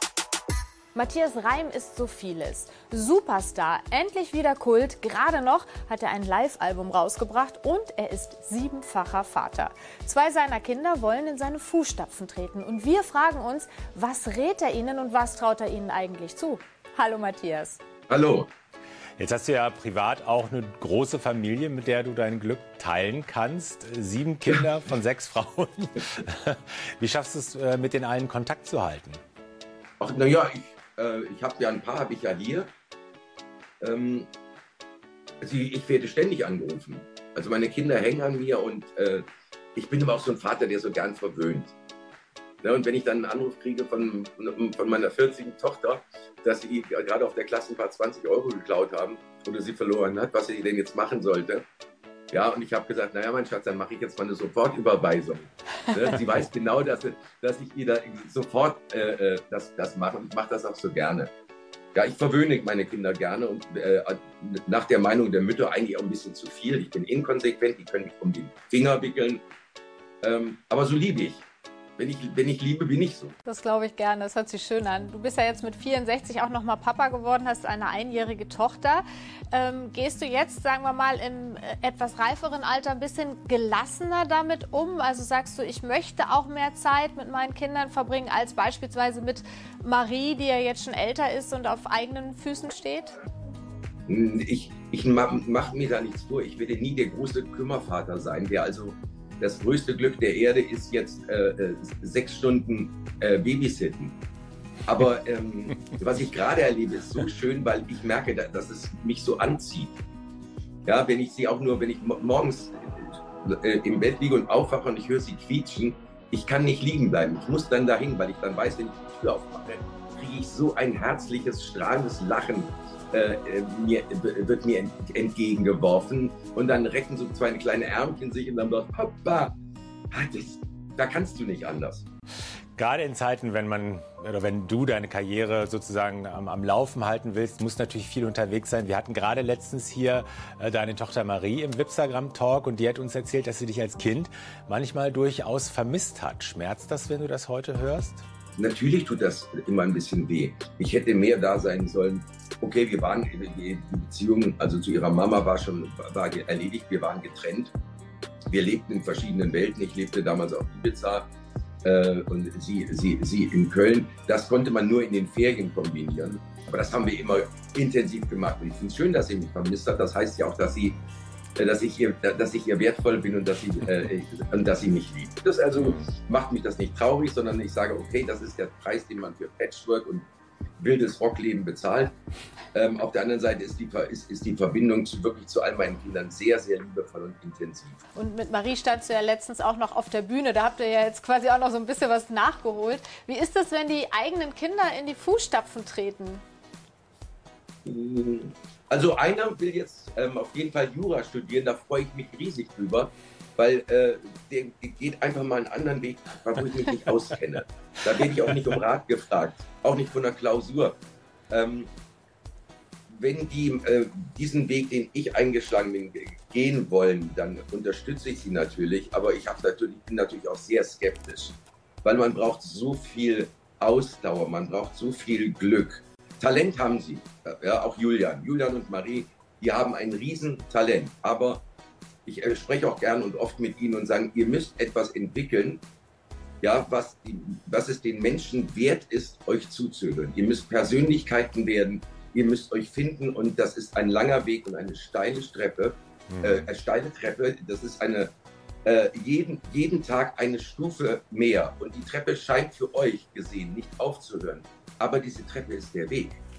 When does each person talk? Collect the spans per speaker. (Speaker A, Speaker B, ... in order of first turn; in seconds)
Speaker A: 0.9-17.8, 73.5-93.1, 188.1-196.4
Speaker B: 18.1-18.5, 30.0-32.7, 33.8-34.3, 35.4-41.7, 42.6-51.6, 52.3-61.3, 61.9-69.4, 70.2-73.3, 94.1-104.2, 104.9-110.0, 110.8-129.5, 130.1-132.1, 148.6-157.7, 158.5-161.3, 161.8-171.0, 171.6-182.1, 182.7-188.0, 197.8-211.0, 211.5-211.9, 213.1-231.6, 232.2-235.8, 236.6-248.3, 248.8-256.4
Speaker C: 19.2-29.2, 132.8-148.2, 246.3-246.7